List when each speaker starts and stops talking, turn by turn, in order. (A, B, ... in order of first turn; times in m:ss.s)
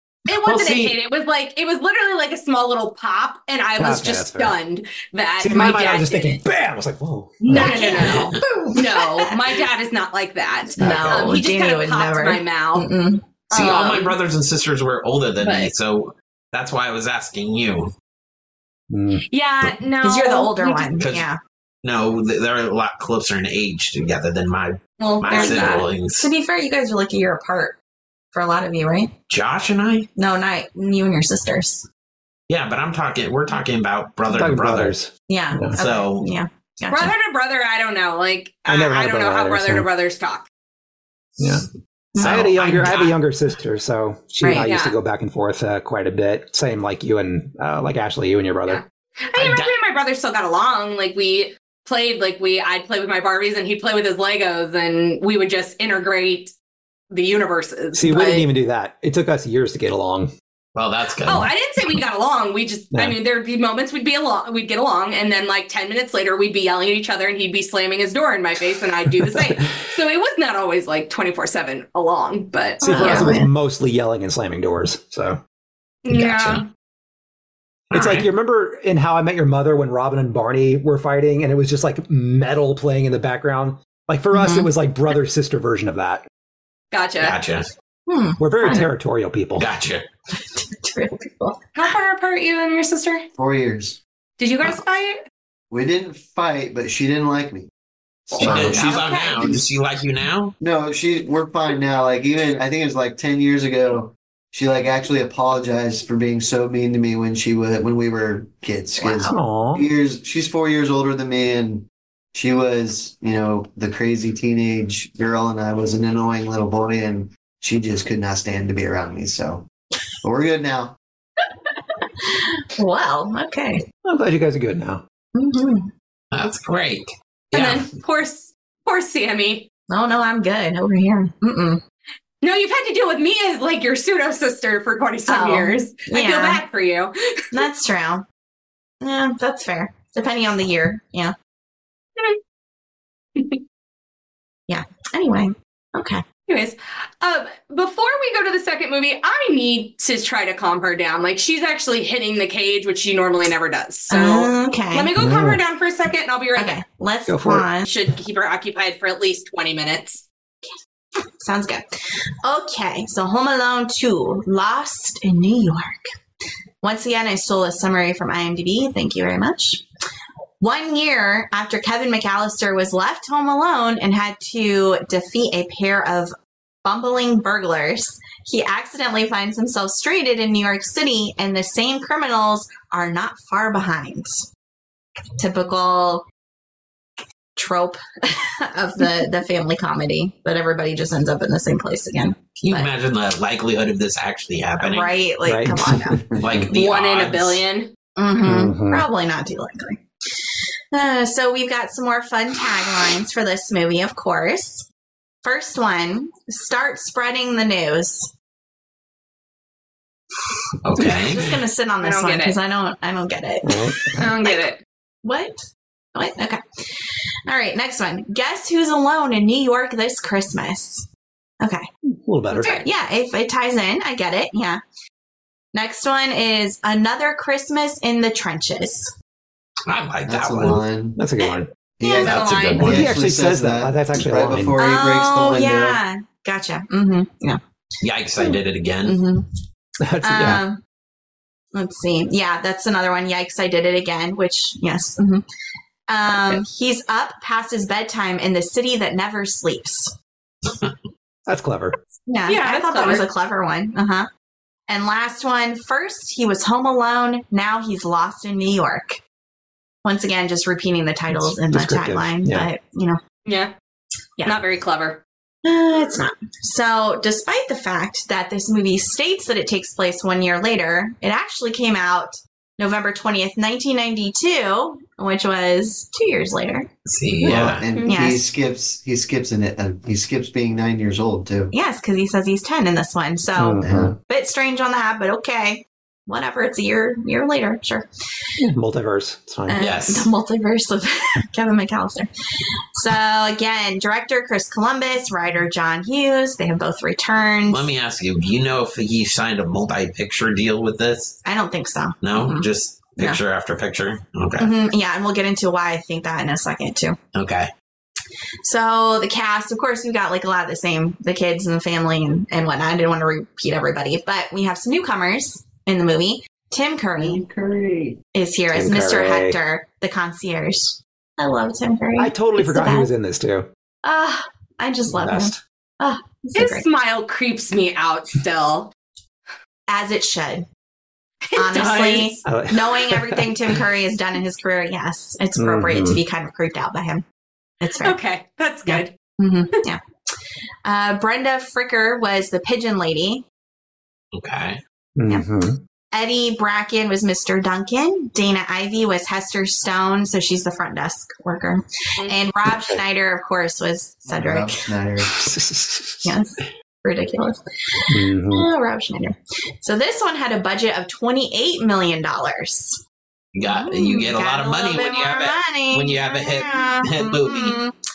0:00.3-0:06.4 A
0:00.4-0:01.0 B
0:03.8-0:04.6 B
0:05.4-0:08.7 B
0:07.4-0:12.9 A
0:07.5-0:09.4 C
0:10.8-0:13.2 C
0:10.8-0:11.3 B
0:13.5-0:14.2 A
0:13.5-0:17.9 D
0:15.4-0:15.7 A
0:18.9-0:19.2 B
0:19.3-0:21.0 A
0:20.0-0:21.4 C
0:21.0-0:21.2 D
0:21.8-0:26.3 D
0:25.0-0:25.9 A
0:25.3-0:27.8 C
0:28.3-0:29.1 C
0:29.3-0:30.1 D
0:30.2-0:31.8 C
0:32.5-0:35.0 D
0:34.3-0:35.8 B
0:35.3-0:37.1 C
0:35.8-0:36.3 D
0:36.9-0:40.5 A
0:38.7-0:39.9 B
0:41.4-0:41.6 D
0:41.4-0:41.6 B
0:42.1-0:42.5 C
0:42.2-0:48.8 B
0:42.2-0:43.2 D
0:44.4-0:44.7 C
0:44.6-0:45.0 A
0:48.7-0:56.5 A
0:49.4-0:49.7 D
0:57.1-0:58.5 A
0:57.9-1:00.3 B
1:00.8-1:01.5 D
1:01.2-1:13.4 A
1:09.2-1:09.7 B
1:12.8-1:13.5 C
1:12.8-1:15.4 B
1:16.0-1:16.7 A
1:16.1-1:16.6 D
1:17.9-1:26.2 B
1:17.9-1:18.3 D
1:24.3-1:24.7 C
1:26.9-1:27.4 A
1:27.2-1:27.7 D
1:28.1-1:28.9 C
1:28.4-1:29.7 B
1:29.6-1:30.1 D
1:30.3-1:31.7 C
1:31.8-1:33.3 A
1:33.4-1:34.0 E
1:34.4-1:35.2 A
1:35.7-1:37.7 E
1:38.3-1:39.2 A
1:38.3-1:39.6 E
1:38.4-1:40.5 D
1:38.5-1:39.5 C
1:40.6-1:59.6 E
1:49.0-1:49.4 C
1:49.3-1:49.9 B
2:00.2-2:01.0 E
2:02.2-2:03.8 C
2:04.0-2:05.0 B
2:05.4-2:05.9 C
2:06.3-2:07.9 D
2:07.5-2:09.7 A
2:09.9-2:11.8 C
2:12.4-2:17.6 A
2:15.3-2:16.6 C
2:17.5-2:18.2 C
2:19.0-2:21.3 C
2:24.7-2:26.2 C
2:26.5-2:36.8 A
2:34.1-2:35.1 C
2:35.2-2:35.6 B
2:36.6-2:37.9 C
2:37.3-2:37.7 B
2:37.8-2:40.2 A
2:41.4-2:41.8 C
2:42.4-2:46.1 C
2:46.8-2:49.8 C
2:50.6-3:04.5 C
3:05.4-3:06.2 C
3:07.6-3:12.9 C
3:12.6-3:15.2 D
3:14.8-3:16.2 C
3:15.4-3:16.6 B
3:16.3-3:16.7 E
3:16.4-3:17.6 D
3:16.7-3:17.9 A
3:18.2-3:20.0 C
3:18.4-3:19.0 B
3:20.9-3:24.9 C
3:25.4-3:28.3 C
3:30.8-3:31.4 D
3:31.0-3:31.4 B
3:31.3-3:34.6 C
3:32.0-3:32.6 A
3:33.6-3:34.3 B
3:34.2-3:34.8 A
3:35.2-3:35.6 C
3:36.2-3:41.1 C
3:41.6-3:41.9 C
3:42.1-3:42.8 B
3:42.5-3:44.8 C
3:45.7-3:49.1 C
3:49.9-3:50.8 D
3:50.3-3:51.2 E
3:51.2-3:51.7 B
3:52.0-3:56.0 E
3:52.0-3:53.0 A
3:52.2-3:53.2 D
3:52.8-3:54.8 B
3:54.8-3:57.6 C
3:58.0-3:59.2 D
3:58.4-3:59.5 C
4:00.0-4:00.6 B
4:00.2-4:00.8 C
4:01.7-4:05.4 C
4:06.1-4:10.1 C
4:10.7-4:10.9 D
4:11.5-4:12.0 B
4:12.3-4:14.3 C
4:12.5-4:13.3 A
4:14.9-4:19.2 C
4:20.0-4:23.2 C
4:21.3-4:22.7 B
4:23.5-4:23.7 A
4:24.4-4:25.2 A
4:25.6-4:36.9 C
4:37.1-4:37.9 D
4:37.4-4:38.5 C
4:37.4-4:41.7 E
4:37.9-4:38.2 A
4:41.7-4:48.1 C
4:43.6-4:44.2 B
4:43.8-4:44.2 E
4:48.6-4:49.8 B
4:49.7-4:52.3 C
4:49.8-4:50.3 D
4:53.0-4:57.9 C
4:57.7-5:01.4 D
5:01.4-5:03.4 C
5:02.2-5:04.7 D
5:04.6-5:07.2 C
5:07.3-5:07.7 D
5:08.6-5:17.4 C
5:17.2-5:18.2 E
5:18.3-5:23.1 C
5:18.7-5:19.6 B
5:22.2-5:23.7 B
5:24.0-5:26.8 C
5:25.1-5:25.6 B
5:26.6-5:28.9 A
5:29.9-5:30.7 C
5:31.5-5:32.4 A
5:31.6-5:37.2 C
5:32.4-5:33.8 B
5:35.6-5:36.2 B
5:37.8-5:38.2 C
5:38.0-5:39.1 A
5:38.9-5:40.0 C
5:40.8-5:43.4 C
5:44.3-5:44.8 D
5:45.2-5:45.8 B
5:46.1-5:54.8 C
5:52.7-5:53.0 B
5:54.3-5:55.5 E
5:55.3-5:56.4 B
5:56.2-5:57.6 C
5:58.1-5:58.7 B
5:58.5-6:03.0 C
6:03.5-6:07.8 D
6:03.6-6:07.9 C